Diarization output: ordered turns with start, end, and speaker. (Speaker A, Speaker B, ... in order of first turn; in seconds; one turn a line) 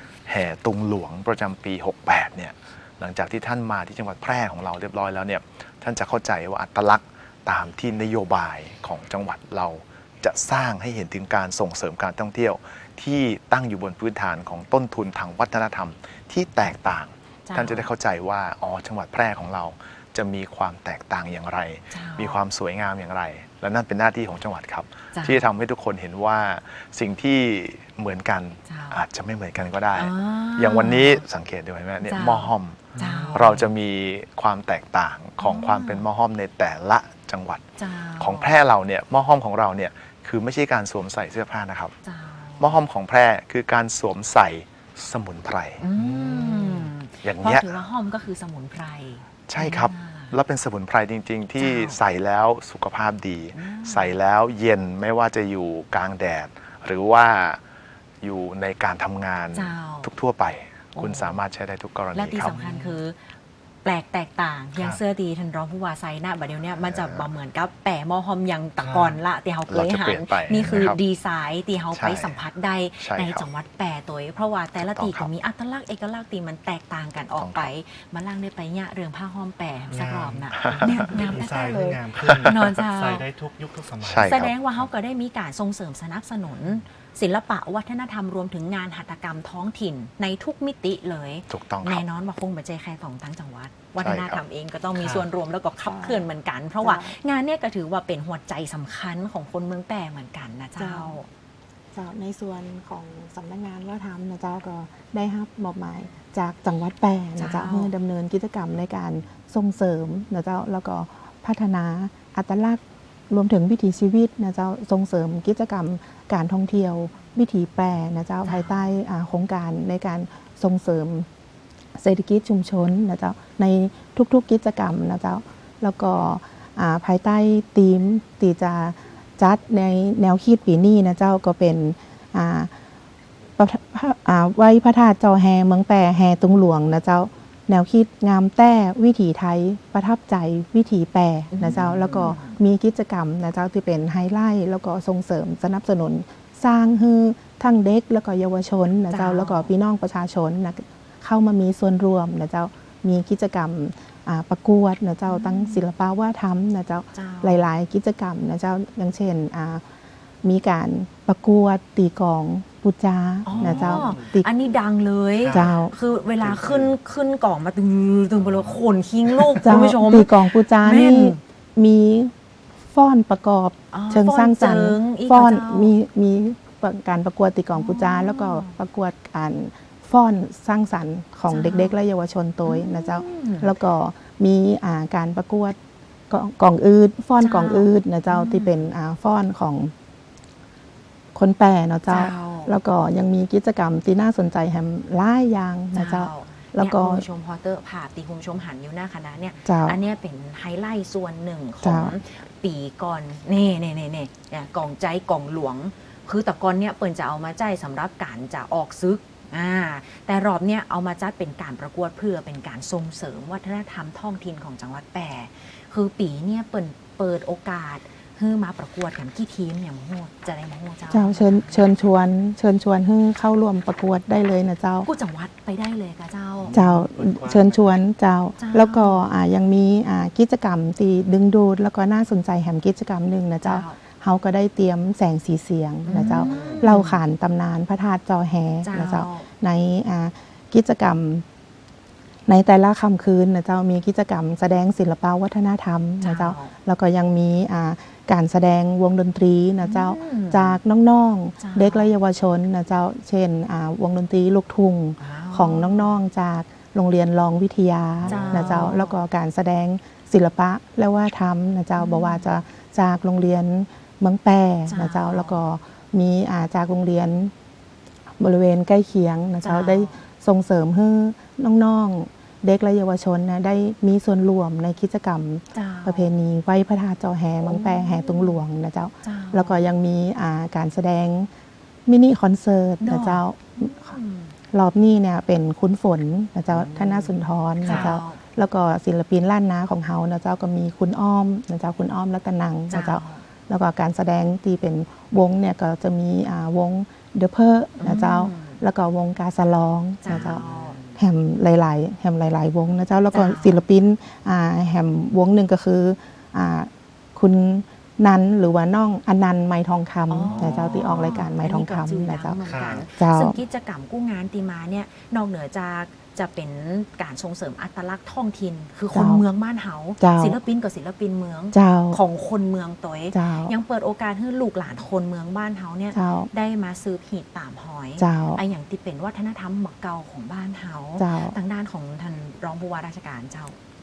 Speaker A: 0.2-37.7
Speaker B: 17.4-17.9
Speaker B: 21.9-22.4
Speaker B: 25.1-25.5
Speaker B: 28.6-29.0
Speaker B: 29.9-31.2
Speaker B: 32.0-33.7
Speaker C: 32.9-33.4
Speaker B: 35.4-36.0
Speaker B: 37.8-38.5
Speaker A: 38.2-41.9
Speaker B: 42.0-42.7
Speaker A: 42.6-45.8
Speaker B: 45.8-50.3
Speaker C: 45.9-46.9
Speaker A: 47.2-47.7
Speaker A: 49.5-57.6
Speaker B: 51.6-52.0
Speaker B: 53.5-54.2
Speaker A: 58.2-62.6
Speaker B: 59.5-60.1
Speaker B: 60.9-61.4
Speaker B: 62.1-63.2
Speaker C: 62.6-63.0
Speaker B: 63.8-83.2
Speaker A: 66.9-67.2
Speaker C: 68.8-69.2
Speaker A: 69.7-71.0
Speaker A: 71.9-72.4
Speaker A: 73.0-73.5
Speaker A: 74.8-75.3
Speaker A: 77.4-77.7
Speaker C: 79.9-84.8
Speaker A: 80.6-81.2
Speaker A: 82.2-82.7
Speaker A: 84.0-84.5
Speaker B: 84.2-101.3
Speaker A: 91.5-92.0
Speaker A: 94.0-94.4
Speaker C: 95.0-95.3
Speaker D: 95.8-96.2
Speaker D: 96.8-97.1
Speaker D: 100.8-101.2
Speaker D: 101.9-121.3
Speaker B: 107.4-107.9
Speaker B: 118.4-118.9
Speaker D: 122.0-132.7
Speaker D: 133.6-159.8
Speaker B: 141.5-142.6
Speaker B: 149.1-149.7
Speaker B: 155.2-155.9
Speaker B: 157.1-157.7
Speaker D: 160.4-164.5
Speaker B: 163.4-171.4
Speaker C: 163.6-164.2
Speaker C: 165.4-165.7
Speaker D: 165.5-165.9
Speaker C: 166.6-166.8
Speaker D: 169.6-172.3
Speaker D: 172.9-185.8
Speaker B: 173.9-175.9
Speaker B: 177.7-178.8
Speaker B: 181.5-181.9
Speaker B: 182.6-183.7
Speaker D: 186.3-189.9
Speaker B: 187.4-188.7
Speaker D: 191.3-197.2
Speaker B: 192.1-192.7
Speaker B: 195.9-221.9
Speaker D: 199.7-200.0
Speaker D: 201.8-202.2
Speaker D: 221.1-225.1
Speaker B: 225.0-226.8
Speaker C: 226.7-227.9
Speaker D: 226.7-241.4
Speaker B: 228.6-229.2
Speaker B: 233.6-234.0
Speaker B: 236.1-237.2
Speaker C: 236.3-236.8
Speaker B: 238.8-239.5
Speaker D: 242.5-267.5
Speaker B: 246.2-246.7
Speaker B: 249.8-250.8
Speaker B: 251.6-252.1
Speaker B: 255.2-256.1
Speaker B: 258.2-259.2
Speaker C: 258.4-258.7
Speaker B: 261.9-262.5
Speaker B: 264.9-265.6
Speaker D: 268.4-281.5
Speaker B: 269.6-270.2
Speaker B: 275.7-276.3
Speaker B: 277.6-278.6
Speaker B: 279.2-279.8
Speaker D: 282.1-284.1
Speaker B: 283.0-284.5
Speaker D: 284.7-300.6
Speaker B: 286.7-288.4
Speaker B: 292.9-293.4
Speaker B: 298.0-298.8
Speaker B: 300.2-301.0
Speaker D: 301.1-312.6
Speaker B: 303.3-303.8
Speaker B: 310.3-333.8
Speaker C: 310.5-311.2
Speaker C: 312.6-313.0
Speaker D: 313.1-313.6
Speaker D: 319.1-319.4
Speaker D: 320.2-320.6
Speaker D: 321.7-322.2
Speaker D: 323.3-323.7
Speaker D: 326.1-326.5
Speaker D: 328.2-328.6
Speaker D: 331.2-331.6